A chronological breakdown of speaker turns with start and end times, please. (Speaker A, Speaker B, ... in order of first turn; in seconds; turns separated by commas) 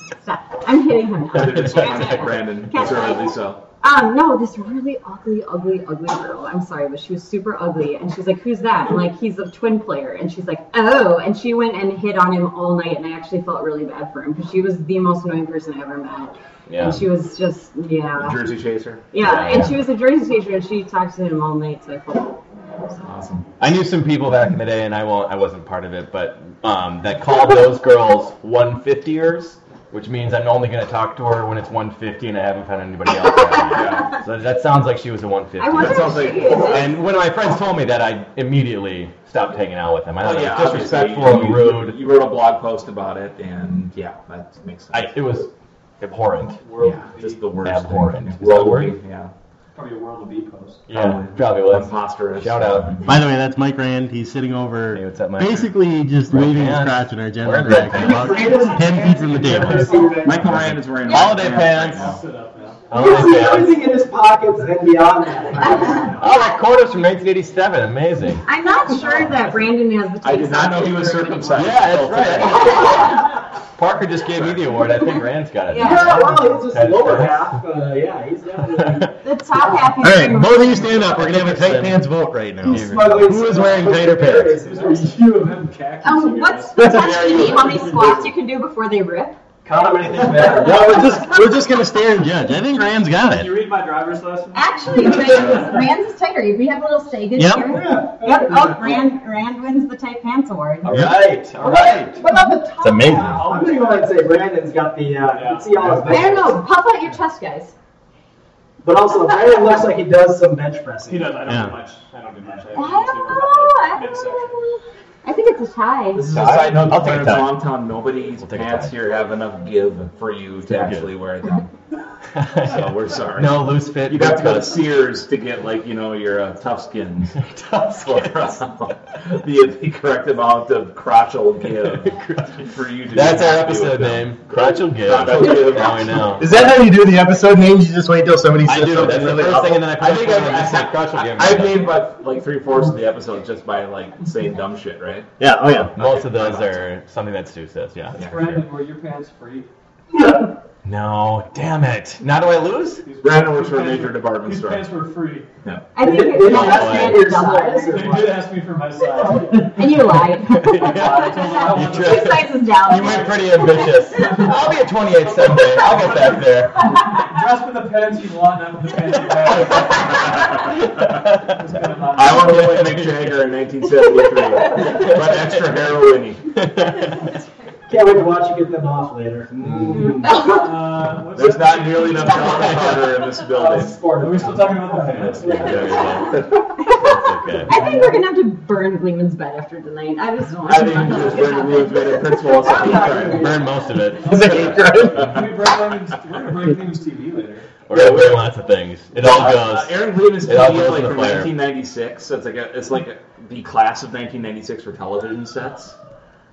Speaker A: 0.2-18.4, Speaker B: 1.3-2.9, Speaker C: 1.3-3.6, Speaker B: 16.7-17.0, Speaker C: 18.2-19.1, Speaker A: 19.1-22.4, Speaker B: 19.2-19.7, Speaker C: 23.0-23.4, Speaker B: 23.6-42.0, Speaker A: 33.4-33.8, Speaker C: 33.7-34.1, Speaker A: 35.6-36.9, Speaker C: 35.8-36.9, Speaker C: 40.2-45.1, Speaker B: 44.9-45.5, Speaker B: 46.0-46.6, Speaker D: 46.6-47.6, Speaker C: 46.8-49.3, Speaker B: 47.6-48.9, Speaker D: 49.7-50.8, Speaker B: 50.9-53.0, Speaker C: 50.9-53.0, Speaker E: 53.0-60.0, Speaker B: 54.9-55.7, Speaker B: 56.3-58.5, Speaker F: 57.9-60.4, Speaker D: 58.2-60.4, Speaker B: 59.6-59.9, Speaker C: 60.2-62.2, Speaker B: 60.7-62.1, Speaker D: 61.1-63.0, Speaker B: 62.9-63.8, Speaker F: 62.9-66.3, Speaker A: 65.6-66.1, Speaker B: 66.2-68.4, Speaker A: 68.4-71.8, Speaker C: 69.0-69.5, Speaker C: 70.2-73.0, Speaker B: 71.5-77.6, Speaker A: 72.3-73.2, Speaker A: 75.7-76.2, Speaker F: 75.8-79.8, Speaker B: 78.7-79.1, Speaker A: 79.2-81.2, Speaker E: 80.0-84.5, Speaker B: 81.0-82.0, Speaker B: 82.6-84.4, Speaker F: 82.6-85.2, Speaker D: 84.6-88.2, Speaker A: 86.0-89.4, Speaker E: 86.8-87.1, Speaker C: 86.9-88.3, Speaker F: 89.7-91.1, Speaker D: 90.0-91.2, Speaker E: 90.0-93.6, Speaker D: 93.1-95.8, Speaker A: 94.5-100.9, Speaker E: 97.3-97.8, Speaker F: 97.7-98.8, Speaker D: 98.6-99.0, Speaker B: 100.8-102.2, Speaker E: 100.9-101.2, Speaker D: 101.5-102.2, Speaker F: 102.3-102.7, Speaker E: 102.8-103.4, Speaker B: 102.8-103.4, Speaker D: 103.1-104.2, Speaker F: 103.3-106.6, Speaker D: 105.3-106.5, Speaker A: 106.0-107.7, Speaker F: 108.8-111.3, Speaker D: 111.1-114.8, Speaker E: 111.5-111.8, Speaker A: 112.7-114.6, Speaker A: 115.2-116.2, Speaker C: 116.1-121.7, Speaker B: 116.3-117.4, Speaker E: 116.3-117.4, Speaker B: 118.4-118.9, Speaker B: 120.7-121.1, Speaker B: 122.3-124.8, Speaker C: 122.6-127.4, Speaker B: 127.4-128.6, Speaker C: 128.0-136.4, Speaker B: 131.9-136.7, Speaker E: 136.4-139.8, Speaker B: 138.7-141.9, Speaker C: 140.0-145.3, Speaker E: 145.4-145.9, Speaker B: 145.9-148.6, Speaker C: 146.0-146.8, Speaker D: 148.2-149.7, Speaker B: 150.8-153.0, Speaker D: 153.0-155.5, Speaker C: 153.2-154.9, Speaker A: 155.9-158.1, Speaker F: 156.0-158.5, Speaker B: 156.4-157.3, Speaker D: 157.9-159.8, Speaker A: 159.7-164.2, Speaker B: 160.4-166.9, Speaker D: 160.7-166.4, Speaker D: 167.1-170.7, Speaker B: 169.3-170.0, Speaker B: 171.0-171.6, Speaker D: 171.5-173.0, Speaker C: 172.1-176.4, Speaker B: 172.3-173.3, Speaker B: 174.9-175.4, Speaker B: 176.6-177.1, Speaker F: 177.9-180.5, Speaker D: 180.0-183.2, Speaker C: 181.3-183.9, Speaker B: 182.5-183.0, Speaker F: 183.4-186.0, Speaker D: 184.1-186.2, Speaker C: 185.2-185.8, Speaker B: 185.5-187.7, Speaker A: 186.8-187.1, Speaker A: 187.6-193.7, Speaker C: 190.6-193.5, Speaker D: 193.0-193.5, Speaker B: 193.2-195.3, Speaker D: 194.1-197.8, Speaker E: 194.3-195.1, Speaker B: 197.9-201.5, Speaker C: 197.9-198.4, Speaker C: 199.2-205.9, Speaker D: 199.2-199.7